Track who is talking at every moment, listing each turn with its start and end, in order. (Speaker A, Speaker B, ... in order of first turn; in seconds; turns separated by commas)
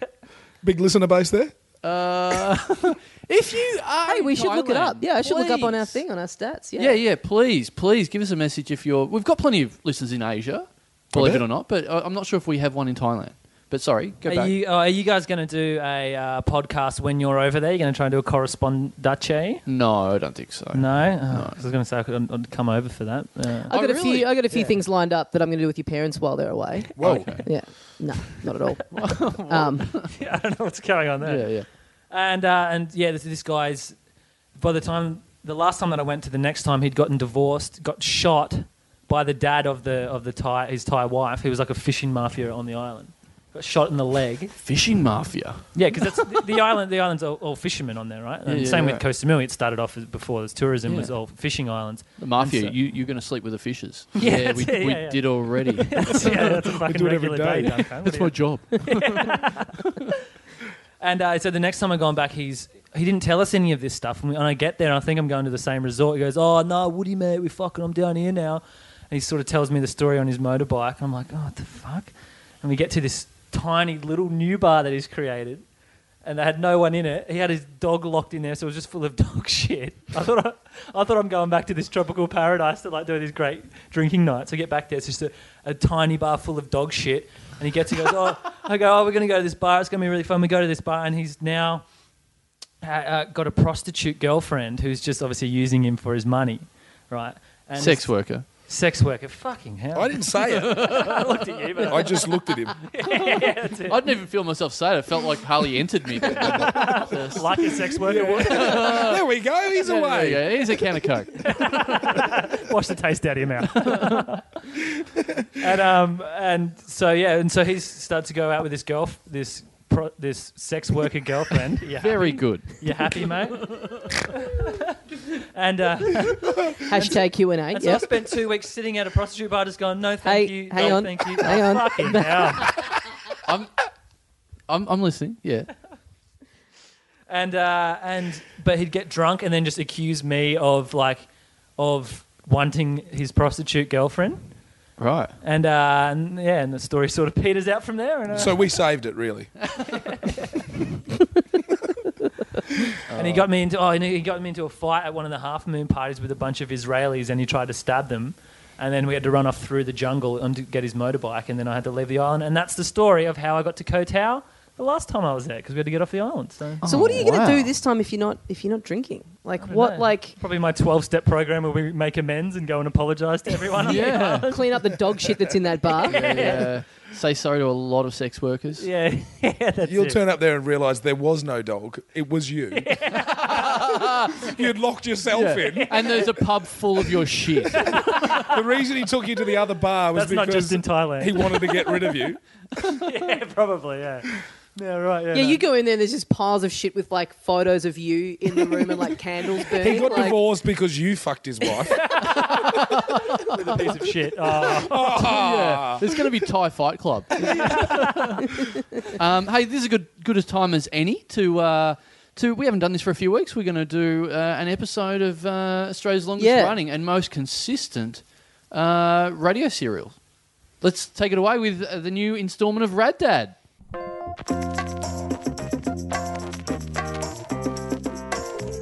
Speaker A: 0.6-1.5, Speaker B: 1.8-6.0, Speaker C: 4.0-7.0, Speaker B: 6.8-14.6, Speaker A: 11.1-11.4, Speaker D: 14.2-19.6, Speaker B: 19.7-21.6, Speaker D: 20.7-23.7, Speaker C: 23.7-29.9, Speaker B: 23.7-24.3, Speaker A: 27.0-27.4, Speaker B: 27.0-27.4, Speaker B: 28.9-30.1, Speaker D: 30.0-31.5, Speaker B: 31.2-31.6, Speaker D: 32.1-34.0, Speaker D: 34.6-44.5, Speaker B: 44.6-45.6, Speaker D: 45.7-52.8, Speaker B: 48.5-49.0, Speaker B: 50.9-51.1, Speaker B: 52.2-56.5, Speaker D: 54.2-59.8, Speaker A: 56.2-57.9, Speaker B: 58.0-59.5, Speaker D: 61.0-75.6, Speaker D: 76.2-91.8, Speaker D: 92.8-104.0, Speaker B: 97.8-98.4, Speaker A: 99.9-101.0, Speaker B: 100.4-102.1, Speaker A: 101.8-102.8, Speaker B: 103.1-109.2, Speaker D: 106.2-109.0, Speaker A: 106.3-107.0, Speaker A: 107.6-110.9, Speaker B: 109.8-111.5, Speaker D: 111.4-114.5, Speaker B: 113.8-114.2, Speaker A: 115.0-115.5, Speaker D: 115.6-132.9, Speaker B: 122.0-123.8, Speaker C: 126.8-128.1, Speaker C: 130.2-132.7, Speaker B: 133.4-133.7, Speaker B: 134.7-135.7, Speaker D: 137.3-144.4, Speaker B: 145.0-145.3, Speaker D: 145.4-148.6, Speaker A: 148.3-149.5, Speaker D: 149.9-150.6, Speaker B: 153.1-153.5, Speaker D: 153.1-167.2, Speaker B: 166.8-167.7, Speaker C: 166.8-170.3, Speaker D: 169.6-174.9, Speaker B: 173.8-174.5, Speaker C: 173.9-176.7, Speaker D: 175.9-176.7, Speaker B: 176.1-178.9, Speaker D: 178.8-180.2, Speaker A: 179.8-186.3, Speaker D: 182.8-184.0, Speaker B: 183.5-184.2, Speaker B: 185.3-187.9, Speaker D: 185.7-186.3, Speaker D: 187.7-188.6, Speaker A: 187.8-192.4, Speaker D: 190.1-192.2, Speaker D: 192.9-195.6, Speaker C: 195.3-200.4, Speaker A: 199.7-202.5, Speaker D: 201.8-205.4, Speaker B: 202.6-203.4, Speaker A: 204.5-206.3, Speaker B: 205.2-208.2, Speaker A: 207.4-207.9, Speaker D: 207.5-208.4, Speaker B: 209.0-220.2, Speaker C: 216.4-216.8, Speaker B: 220.8-223.5